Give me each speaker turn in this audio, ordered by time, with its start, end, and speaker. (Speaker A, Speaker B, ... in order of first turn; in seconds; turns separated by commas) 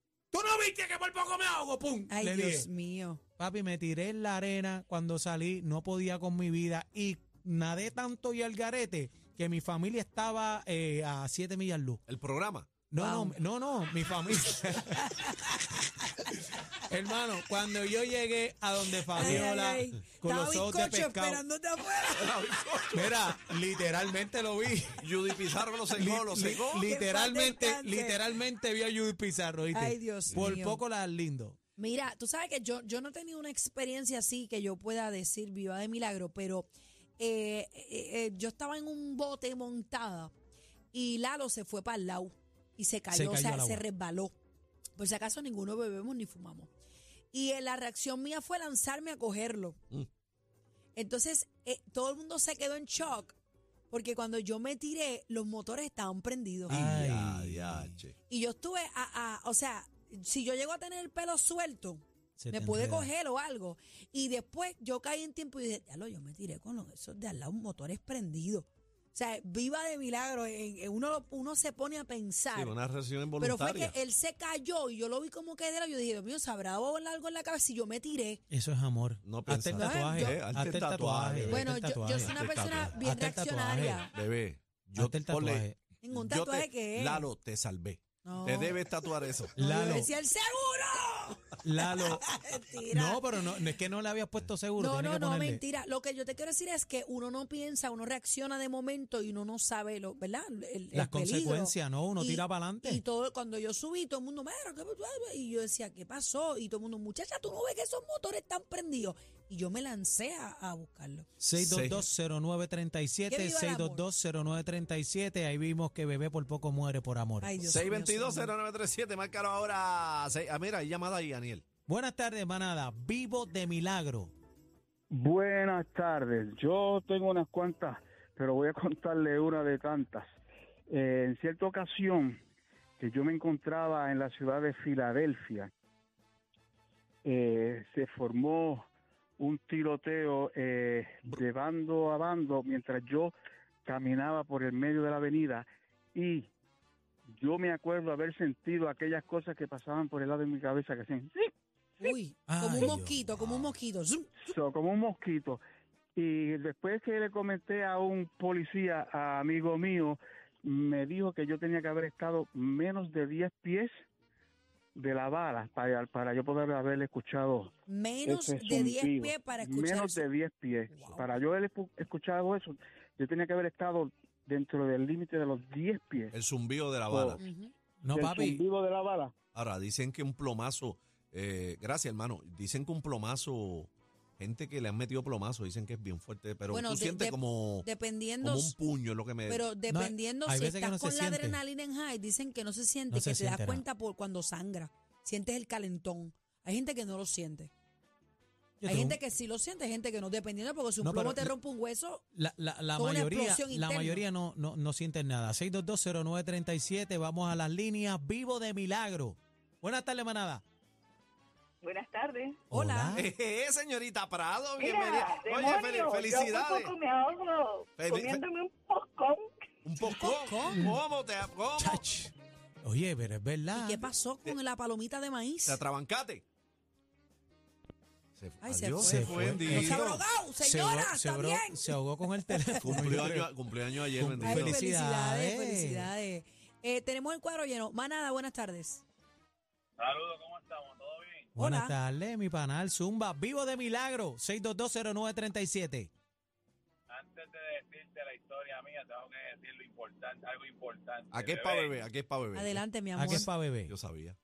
Speaker A: 0.3-2.7, Speaker B: 2.1-3.2, Speaker A: 3.4-12.0, Speaker C: 12.1-12.7, Speaker A: 12.9-15.2, Speaker B: 13.0-13.4, Speaker B: 14.9-16.2, Speaker A: 16.9-21.4, Speaker B: 19.1-22.4, Speaker C: 22.2-23.1, Speaker A: 22.9-25.1, Speaker C: 25.0-26.8, Speaker A: 25.9-31.6, Speaker B: 26.7-28.2, Speaker B: 29.7-30.8, Speaker B: 31.8-40.3, Speaker B: 40.9-44.3, Speaker A: 43.1-43.8, Speaker B: 45.0-46.7, Speaker B: 47.3-49.8, Speaker B: 51.0-53.3, Speaker B: 53.9-56.8, Speaker A: 56.7-58.0, Speaker C: 56.7-58.1, Speaker B: 58.3-72.7, Speaker A: 62.4-63.1, Speaker C: 72.5-73.9, Speaker B: 73.4-78.4, Speaker A: 78.5-82.4, Speaker C: 79.2-81.6, Speaker B: 79.8-80.4, Speaker B: 81.5-84.1, Speaker C: 82.3-82.9, Speaker A: 82.9-84.0, Speaker C: 84.1-85.7, Speaker A: 85.0-85.8, Speaker B: 86.0-87.3, Speaker C: 86.2-89.5, Speaker B: 88.2-88.9, Speaker A: 89.5-90.1, Speaker B: 89.6-93.3, Speaker A: 91.6-92.3, Speaker A: 92.9-95.6, Speaker B: 94.8-111.3, Speaker A: 100.9-103.0, Speaker A: 111.4-117.6, Speaker C: 111.6-112.0, Speaker B: 113.3-114.0, Speaker B: 117.4-118.5, Speaker C: 117.7-121.7, Speaker A: 121.8-124.3, Speaker D: 125.1-130.3, Speaker D: 130.9-132.4, Speaker D: 133.0-135.7, Speaker D: 137.2-138.8, Speaker D: 139.4-143.3, Speaker D: 143.8-146.5, Speaker D: 147.3-151.5, Speaker B: 152.0-154.3, Speaker A: 152.5-153.3, Speaker D: 154.5-155.6, Speaker D: 156.2-163.9, Speaker D: 164.9-167.7, Speaker B: 167.9-170.3, Speaker D: 168.2-176.3, Speaker B: 170.9-171.3, Speaker C: 176.3-177.4, Speaker D: 177.0-177.4, Speaker B: 177.4-177.7, Speaker A: 178.0-178.6, Speaker D: 178.1-179.3, Speaker C: 179.5-187.9, Speaker B: 186.7-188.8, Speaker C: 188.4-189.7, Speaker B: 189.5-197.7, Speaker A: 189.9-191.6, Speaker A: 193.1-193.8, Speaker A: 198.8-199.2, Speaker B: 198.8-202.2, Speaker A: 201.0-201.5, Speaker A: 202.3-210.6, Speaker B: 202.9-204.2, Speaker E: 211.8-212.6, Speaker B: 212.7-213.2, Speaker A: 212.7-213.3, Speaker C: 213.1-216.9, Speaker E: 214.8-219.5, Speaker C: 218.0-218.4, Speaker C: 219.8-222.0, Speaker B: 220.0-220.9, Speaker A: 220.7-221.0, Speaker A: 221.8-224.1, Speaker B: 223.7-225.8, Speaker C: 225.6-226.4, Speaker C: 228.3-230.2, Speaker B: 228.6-232.0, Speaker A: 228.9-233.5, Speaker B: 232.5-233.0, Speaker C: 232.8-234.7, Speaker A: 234.1-236.1, Speaker B: 234.4-239.0, Speaker F: 240.0-241.5, Speaker A: 241.5-246.1, Speaker B: 241.6-241.9, Speaker F: 247.1-252.0, Speaker C: 251.3-252.8, Speaker B: 252.5-253.5, Speaker A: 253.2-253.9, Speaker C: 253.9-254.4